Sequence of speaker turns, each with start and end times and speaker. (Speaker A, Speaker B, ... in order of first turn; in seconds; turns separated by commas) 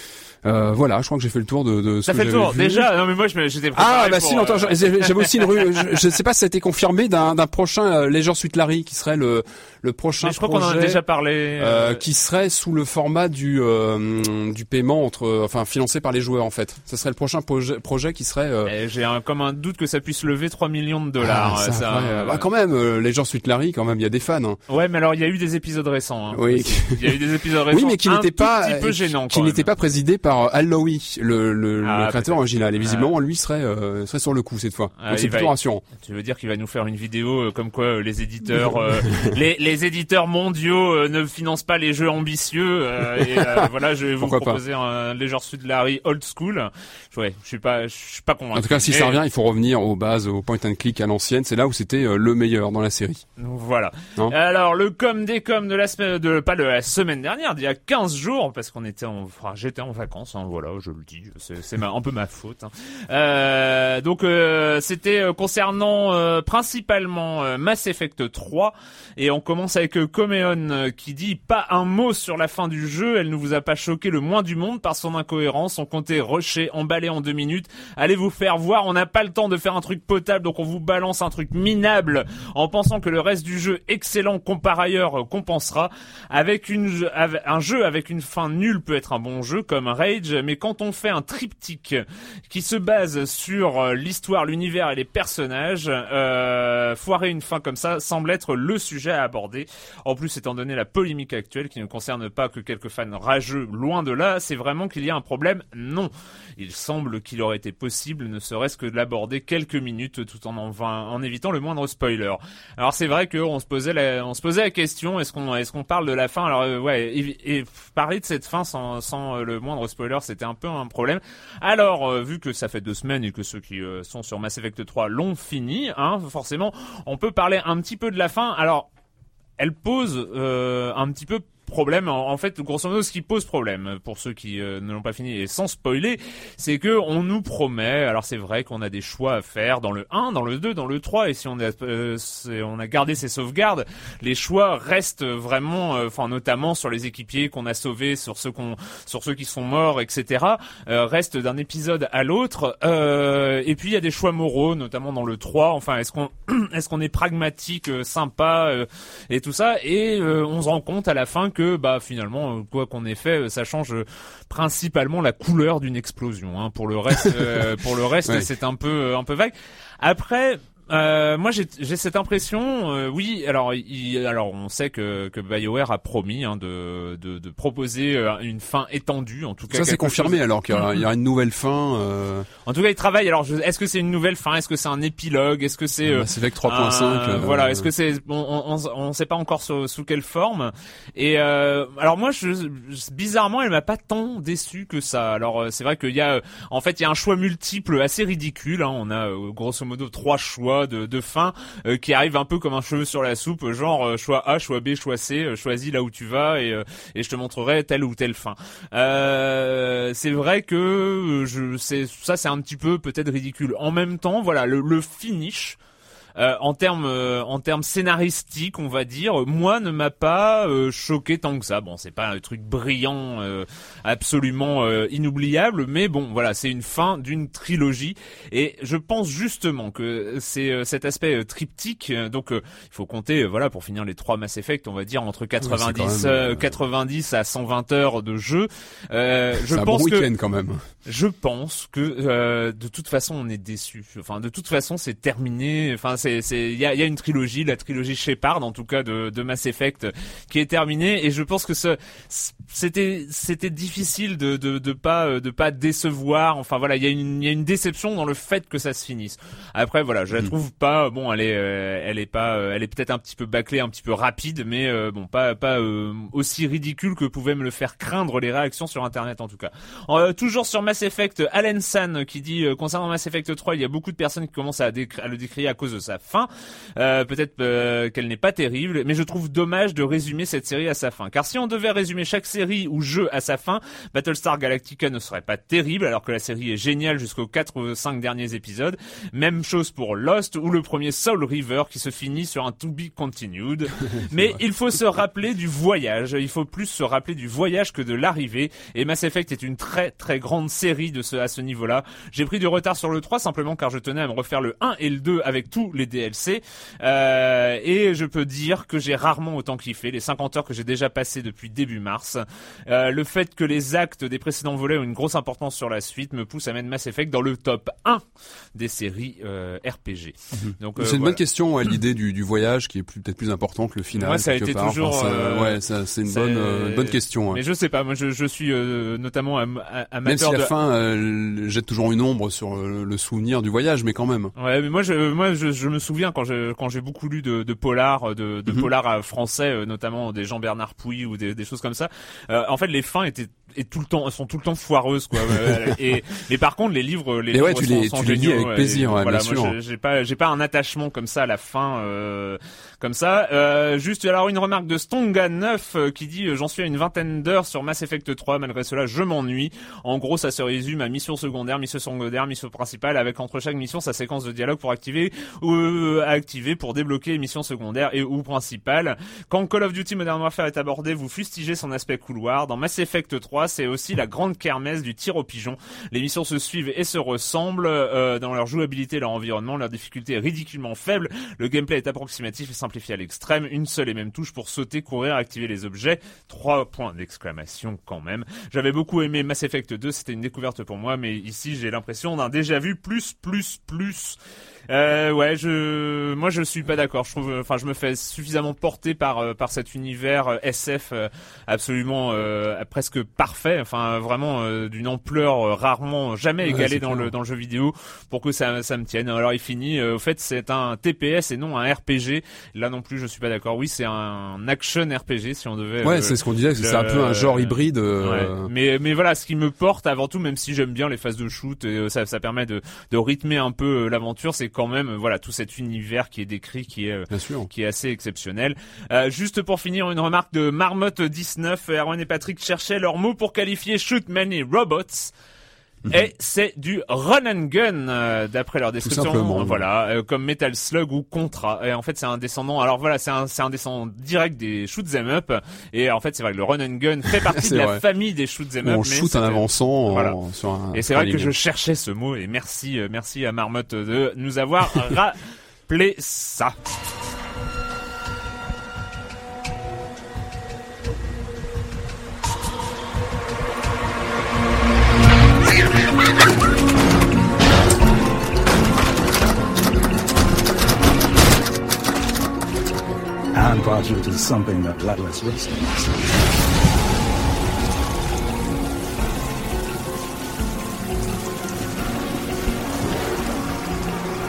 Speaker A: 0.4-2.9, Speaker B: 2.1-6.0, Speaker A: 3.8-11.0, Speaker B: 10.2-12.0, Speaker A: 11.6-18.7, Speaker B: 18.6-22.4, Speaker A: 21.2-24.6, Speaker B: 24.7-29.7, Speaker A: 26.3-35.8, Speaker B: 31.8-33.1, Speaker B: 35.0-49.2, Speaker A: 38.5-39.3, Speaker A: 43.2-43.7, Speaker A: 44.2-44.6, Speaker A: 48.5-53.2, Speaker B: 53.4-128.9, Speaker B: 129.6-181.0, Speaker A: 167.2-167.5, Speaker A: 179.7-182.5, Speaker B: 182.7-215.8, Speaker A: 186.0-187.9, Speaker B: 216.4-240.3, Speaker A: 235.6-236.8, Speaker A: 239.7-240.8, Speaker B: 241.1-318.2, Speaker A: 294.1-294.5, Speaker B: 318.8-321.4, Speaker A: 320.5-327.6, Speaker B: 324.1-330.7, Speaker A: 330.2-334.5, Speaker B: 334.6-394.4, Speaker A: 347.5-349.7, Speaker B: 394.9-435.3, Speaker A: 406.6-407.3, Speaker A: 416.0-418.7, Speaker A: 427.3-427.7, Speaker B: 436.1-450.4, Speaker A: 439.0-439.8, Speaker A: 447.3-448.0, Speaker A: 448.8-451.5, Speaker B: 450.9-456.7, Speaker C: 473.5-475.8